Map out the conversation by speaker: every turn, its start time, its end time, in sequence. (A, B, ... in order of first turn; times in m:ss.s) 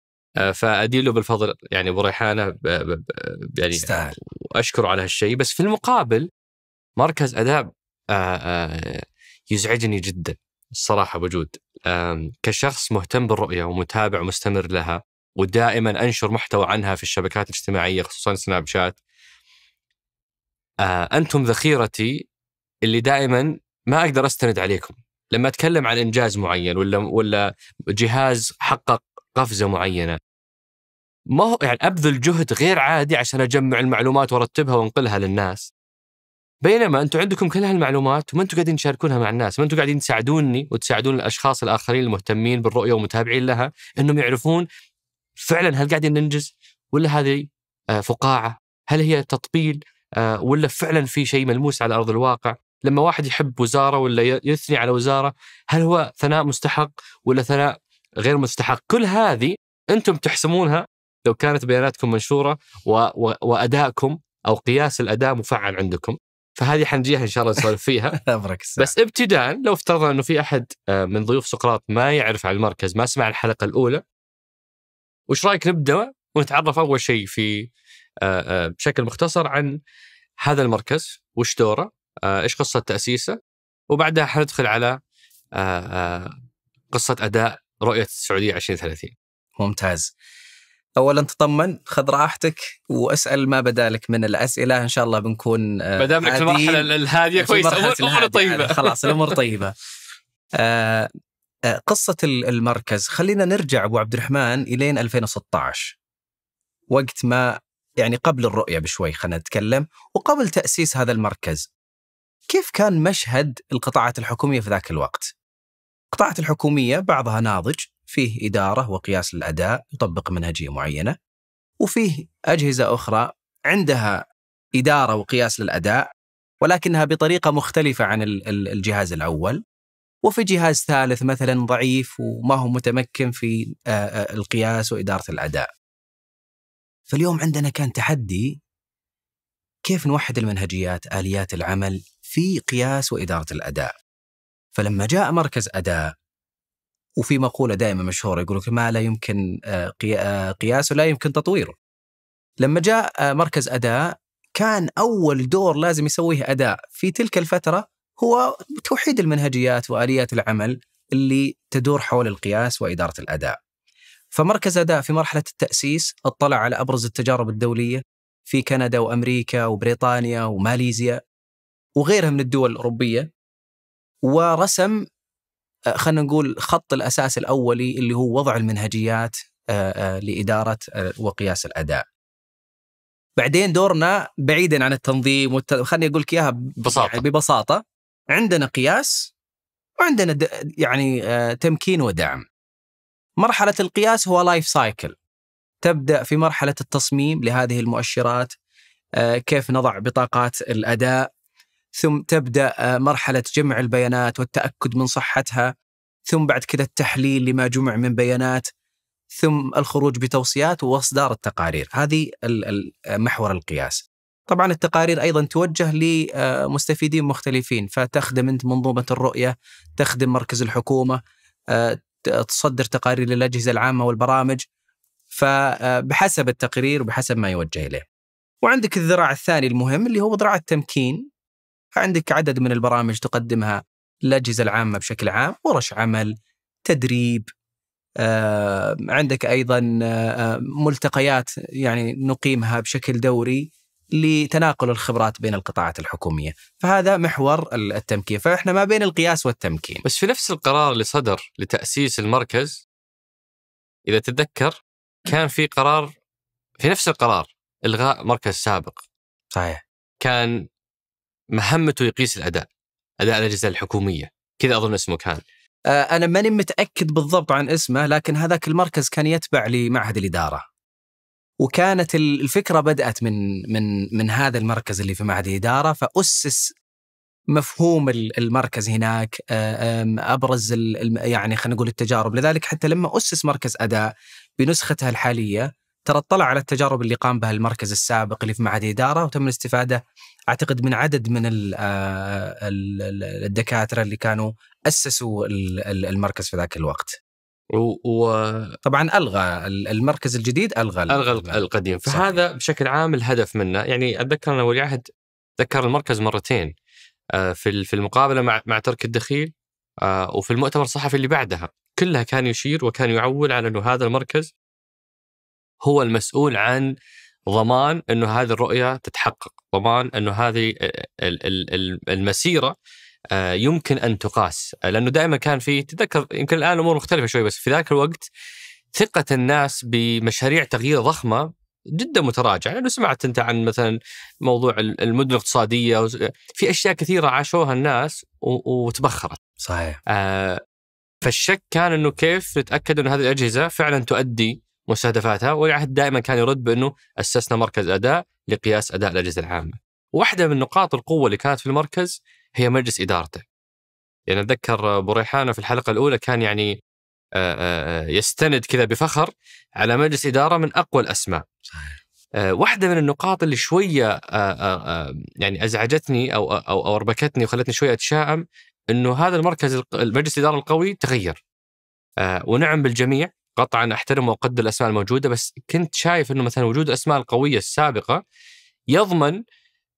0:00.4-0:06.3 A
0:03.8-0:04.2 B
0:07.0-0:09.0 A
0:09.5-0:19.0 A
0:20.8-0:22.1 A
0:22.9-0:27.4 A
0:27.9-0:30.2 A
0:31.4-0:35.7 A
0:36.6-0:44.7 A
0:45.4-0:47.5 A
0:48.0-1:08.2 A
1:08.2-1:08.9 B
1:08.8-1:14.0 A
1:15.3-1:17.7 A
1:18.2-1:19.7 A
1:20.4-1:23.4 A
1:23.9-1:25.0 A
1:25.6-1:26.3 A
1:26.9-1:29.2 A
1:29.6-1:30.1 B
1:31.0-1:39.7 B
1:36.0-1:39.3 A
1:40.6-1:41.1 B
1:41.7-1:45.9 B
1:46.9-1:51.7 B
1:52.5-1:55.3 B
1:56.1-2:01.2 B
2:01.8-2:04.2 B
2:04.8-2:06.0 B
2:06.6-2:09.6 B
2:10.2-2:15.7 B
2:17.1-2:18.6 B
2:19.9-2:23.9 B
2:24.8-2:26.1 B
2:27.2-2:31.8 B
2:32.6-2:43.6 B
2:44.3-2:51.2 B
2:52.0-2:53.3 B
2:54.3-2:55.0 B
2:56.0-3:02.0 B
3:03.4-3:07.8 B
3:06.8-3:07.2 A
3:08.3-3:09.2 B
3:10.0-3:12.4 B
3:13.4-3:15.2 B
3:15.8-3:18.5 B
3:19.2-3:21.2 B
3:22.0-3:25.7 B
3:26.3-3:28.7 B
3:29.4-3:41.2 B
3:41.7-3:44.6 B
3:45.3-3:48.0 B
3:48.6-3:51.2 B
3:52.0-3:56.3 B
3:56.9-3:57.5 B
3:58.2-4:10.0 B
4:10.0-4:12.8 A
4:14.1-4:16.1 A
4:16.8-4:19.0 A
4:19.5-4:19.8 B
4:20.2-4:20.6 A
4:21.5-4:22.7 A
4:23.2-4:25.4 A
4:25.9-4:30.6 B
4:31.6-4:36.6 B
4:37.5-4:44.0 B
4:44.6-4:57.2 B
4:57.8-4:58.8 A
4:58.8-5:02.4 B
5:01.1-5:05.0 A
5:05.6-5:06.7 A
5:07.4-5:09.5 A
5:10.0-5:14.5 A
5:15.8-5:16.9 A
5:17.5-5:22.7 A
5:23.3-5:28.3 A
5:29.0-5:39.4 A
5:39.6-5:40.0 B
5:40.1-5:40.6 A
5:41.2-5:53.4 A
5:54.3-5:56.7 A
5:57.4-6:01.4 A
6:01.7-6:02.0 B
6:02.4-6:11.4 A
6:12.2-6:18.2 A
6:18.9-6:19.4 A